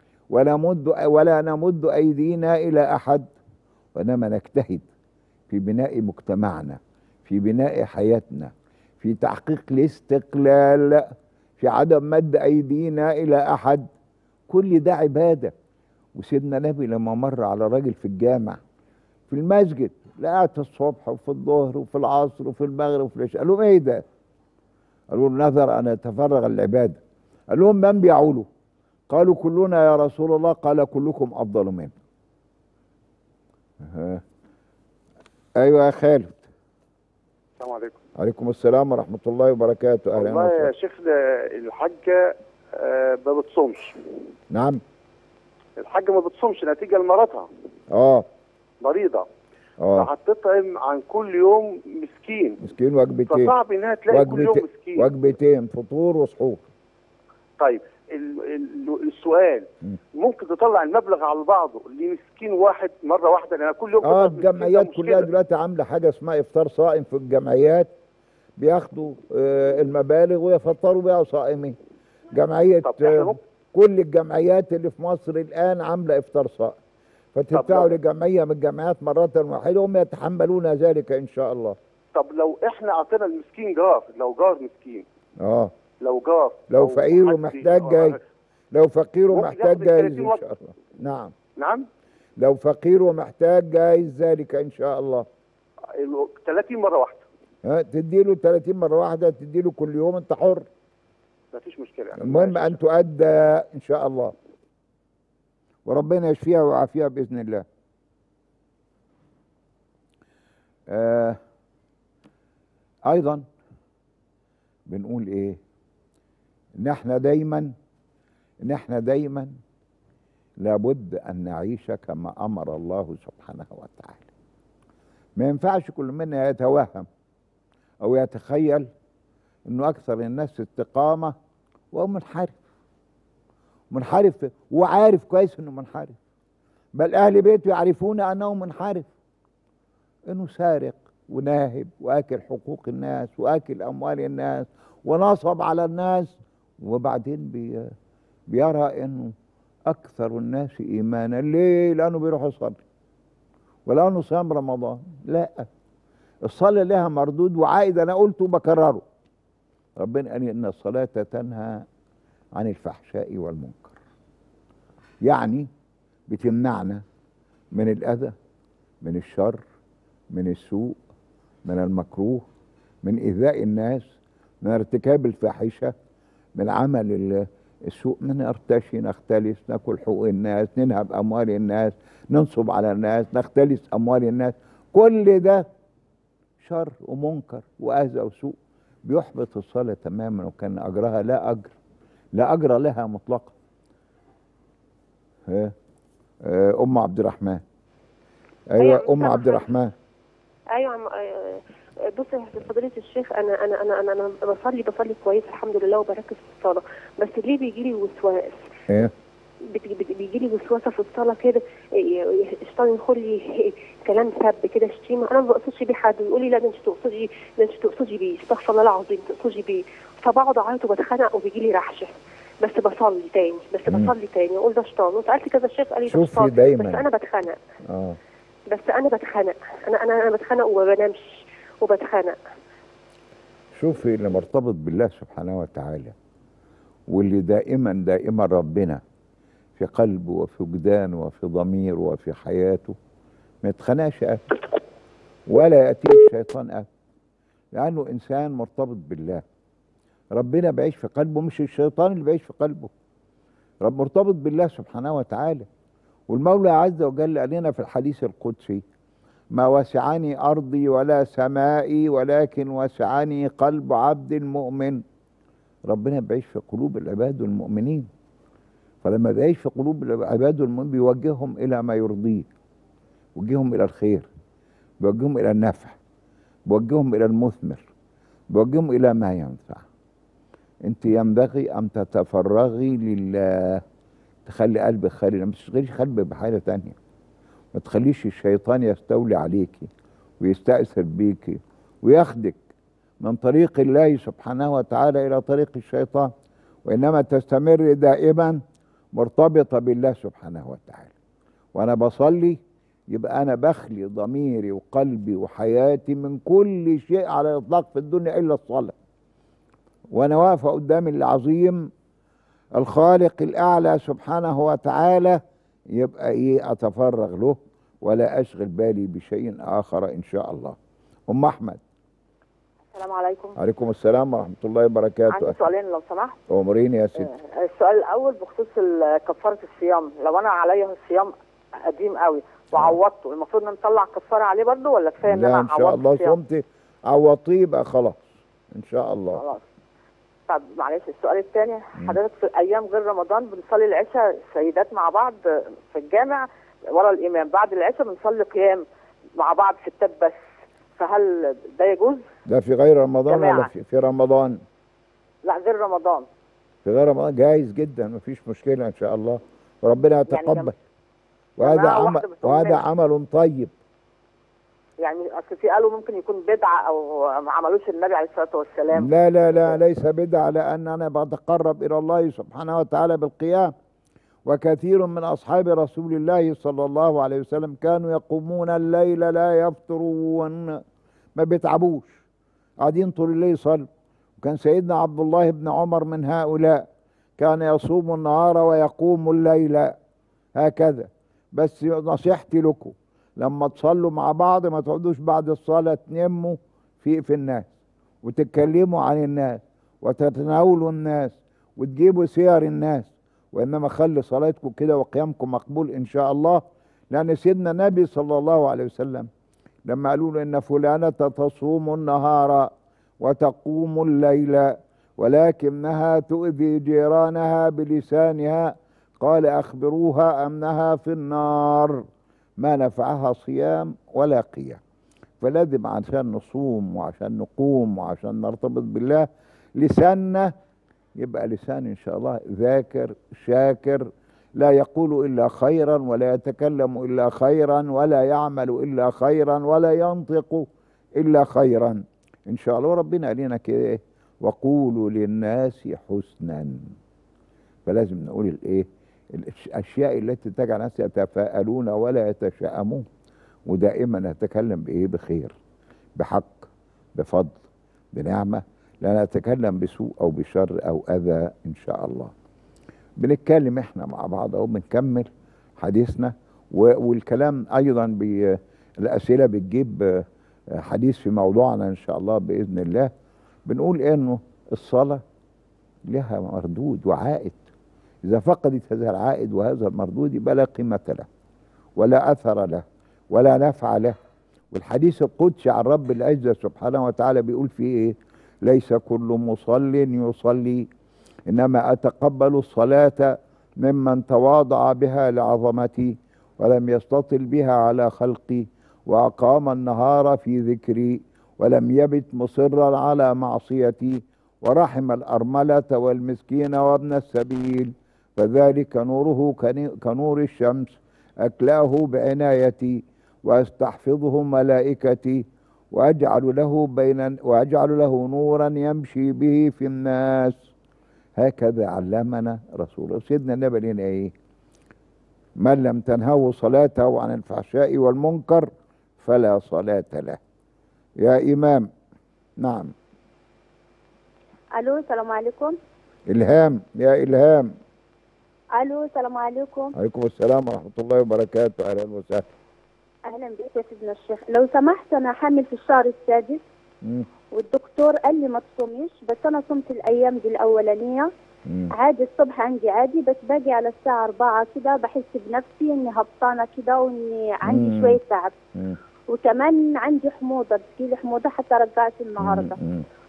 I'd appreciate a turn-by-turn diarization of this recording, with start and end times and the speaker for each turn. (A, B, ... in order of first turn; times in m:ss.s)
0:00.3-0:03.3 A
0:04.0-0:04.8 A
0:05.5-0:11.1 A
0:11.6-0:13.9 A
0:14.5-0:15.5 A
0:16.2-0:18.6 A
0:19.3-0:24.0 A
0:25.1-0:27.0 A
0:27.5-0:28.5 A
0:29.1-0:31.9 A
0:33.8-0:34.2 A
0:35.6-0:36.4 A
0:37.6-0:38.0 B
0:38.2-0:40.7 A
0:40.2-0:44.0 B
0:44.5-0:44.8 A
0:45.8-0:47.5 B
0:47.9-0:48.2 A
0:48.8-0:49.3 B
0:49.8-0:50.1 A
0:50.0-0:52.6 B
0:52.6-0:53.5 A
0:53.3-0:55.1 B
0:54.1-0:56.6 A
0:57.6-1:05.3 B
1:04.0-1:07.9 A
1:08.6-1:11.8 A
1:12.3-1:16.8 A
1:12.8-1:13.4 B
1:17.4-1:21.8 A
1:17.5-1:17.9 B
1:22.1-1:25.0 B
1:25.4-1:25.7 A
1:26.0-1:28.2 B
1:26.7-1:28.2 A
1:28.7-1:31.3 A
1:29.3-1:30.5 B
1:31.6-1:31.9 B
1:32.4-1:35.3 A
1:36.0-1:37.2 B
1:37.6-1:40.7 A
1:41.5-1:42.8 B
1:42.2-1:44.4 A
1:45.9-1:47.6 A
1:50.9-1:51.4 A
1:53.1-1:53.5 A
1:54.9-1:55.6 A
1:56.8-1:57.7 A
1:58.6-1:59.5 A
2:00.6-2:04.3 A
2:05.4-2:07.1 A
2:08.0-2:08.9 A
2:09.7-2:11.3 A
2:11.9-2:12.6 A
2:13.9-2:16.2 A
2:17.0-2:19.1 A
2:20.3-2:27.9 A
2:28.5-2:29.3 A
2:29.9-2:32.8 A
2:33.9-2:35.7 A
2:36.4-2:39.0 A
2:40.0-2:41.8 A
2:42.6-2:44.0 A
2:45.2-2:45.7 A
2:46.3-2:47.0 A
2:47.7-2:48.3 A
2:49.0-2:49.6 A
2:50.3-2:51.0 A
2:51.6-2:52.4 A
2:53.0-2:55.9 A
2:56.6-3:05.7 A
3:06.6-3:11.7 A
3:12.4-3:13.6 A
3:15.5-3:15.8 A
3:16.4-3:17.6 A
3:18.7-3:19.9 A
3:18.8-3:19.7 C
3:20.7-3:28.6 C
3:29.6-3:47.6 C
3:46.1-3:47.0 A
3:47.9-3:48.2 A
3:48.7-3:52.4 C
3:53.8-3:56.2 A
3:57.1-3:59.0 A
3:59.8-4:03.0 A
4:03.6-4:04.4 A
4:05.5-4:06.9 A
4:07.8-4:09.4 A
4:10.4-4:12.9 A
4:13.8-4:15.7 A
4:16.3-4:18.8 A
4:19.5-4:25.0 A
4:25.9-4:28.1 A
4:29.0-4:32.5 A
4:33.4-4:34.3 A
4:35.0-4:36.0 A
4:36.7-4:37.9 A
4:38.5-4:39.8 A
4:40.9-4:43.8 A
4:44.5-4:47.0 A
4:47.7-4:49.9 A
4:50.4-4:52.6 A
4:53.2-4:56.3 A
4:56.9-4:58.6 A
4:59.1-5:01.1 A
5:01.8-5:02.6 A
5:03.1-5:09.0 A
5:10.1-5:11.9 A
5:12.8-5:15.4 A
5:16.0-5:20.8 A
5:21.3-5:21.8 A
5:22.9-5:23.6 D
5:23.6-5:25.6 A
5:25.3-5:26.4 D
5:26.5-5:27.3 A
5:27.2-5:31.3 D
5:31.9-5:36.4 D
5:32.7-5:33.0 A
5:35.2-5:39.4 A
5:39.3-5:39.6 D
5:40.5-5:48.9 D
5:49.4-5:50.4 D
5:51.0-5:52.2 D
5:52.5-5:54.6 A
5:53.3-5:53.7 D
5:55.4-5:56.3 D
5:56.8-6:00.7 A
6:00.3-6:00.7 D
6:01.6-6:03.7 A
6:01.6-6:02.8 D
6:05.0-6:09.8 D
6:08.9-6:13.7 A
6:14.5-6:20.8 A
6:21.4-6:22.2 A
6:22.8-6:23.9 A
6:24.4-6:26.9 A
6:27.4-6:29.9 A
6:30.6-6:37.7 A
6:38.2-6:49.3 A
6:49.9-7:02.0 A
7:02.6-7:04.8 A
7:05.4-7:10.5 A
7:11.2-7:20.7 A
7:21.2-7:26.8 A
7:27.9-7:33.1 A
7:33.7-7:35.5 A
7:36.2-7:37.6 A
7:38.1-7:42.3 A
7:43.2-7:53.1 A
7:53.7-7:55.2 A
7:56.1-7:57.6 A
7:58.2-8:01.3 A
8:02.0-8:04.2 A
8:04.7-8:10.9 A
8:11.5-8:40.7 A
8:41.4-8:44.3 A
8:45.6-8:48.7 A
8:49.2-8:50.4 A
8:51.2-8:51.9 A
8:52.6-8:52.9 A
8:54.7-8:55.8 E
8:56.3-8:57.7 A
8:58.8-8:59.9 E
9:00.0-9:02.5 A
9:03.2-9:06.6 E
9:07.5-9:11.3 E
9:11.7-9:11.9 A
9:11.9-9:18.5 E
9:17.7-9:18.2 A
9:19.3-9:22.8 E
9:22.4-9:23.0 A